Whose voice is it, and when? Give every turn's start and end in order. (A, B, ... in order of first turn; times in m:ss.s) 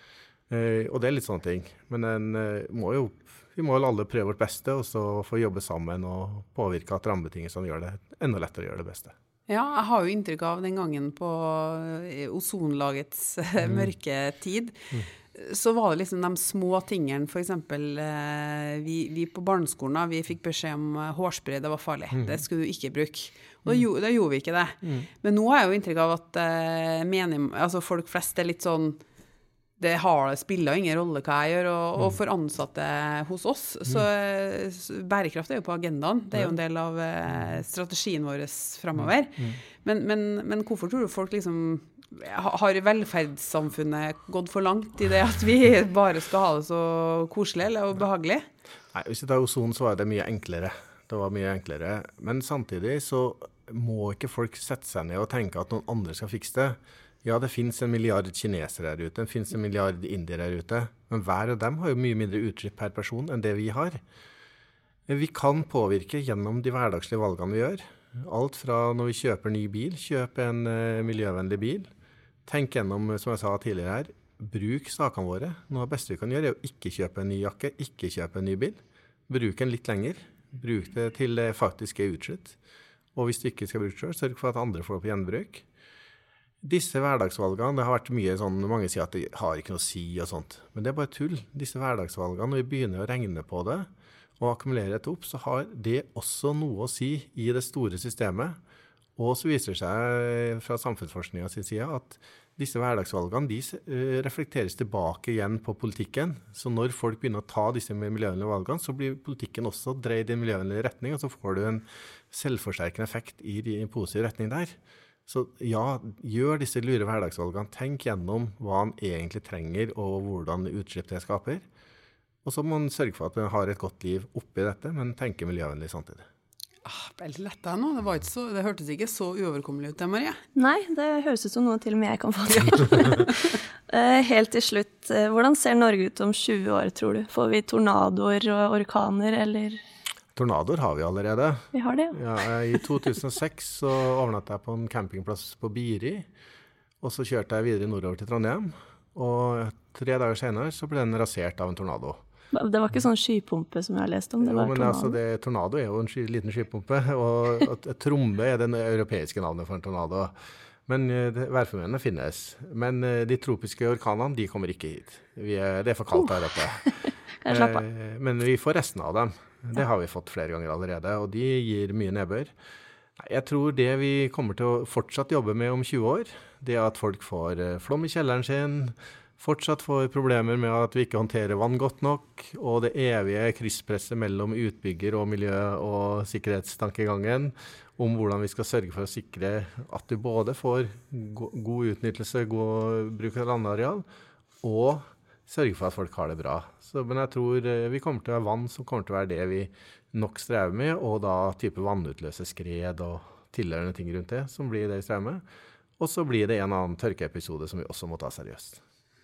0:00.5-0:09.1 A
0:09.5-0:29.0 B
0:13.6-0:13.9 A
0:22.1-0:22.4 A
0:29.8-0:48.5 B
0:48.9-1:04.0 A
1:05.1-1:11.9 A
1:12.4-1:22.6 A
1:23.1-1:25.6 A
1:26.6-1:33.9 A
1:34.4-1:38.6 A
1:39.2-2:01.6 A
2:02.4-2:06.2 A
2:06.8-2:10.4 B
2:10.6-2:13.3 C
2:13.9-2:19.8 C
2:20.3-2:26.3 A
2:21.7-2:22.2 C
2:27.0-2:32.2 A
2:32.5-2:35.2 C
2:34.4-2:40.3 A
2:40.9-2:46.9 A
2:46.8-2:47.8 C
2:47.4-2:52.5 A
2:53.2-3:14.0 A
3:14.6-3:25.4 A
3:26.0-3:28.8 A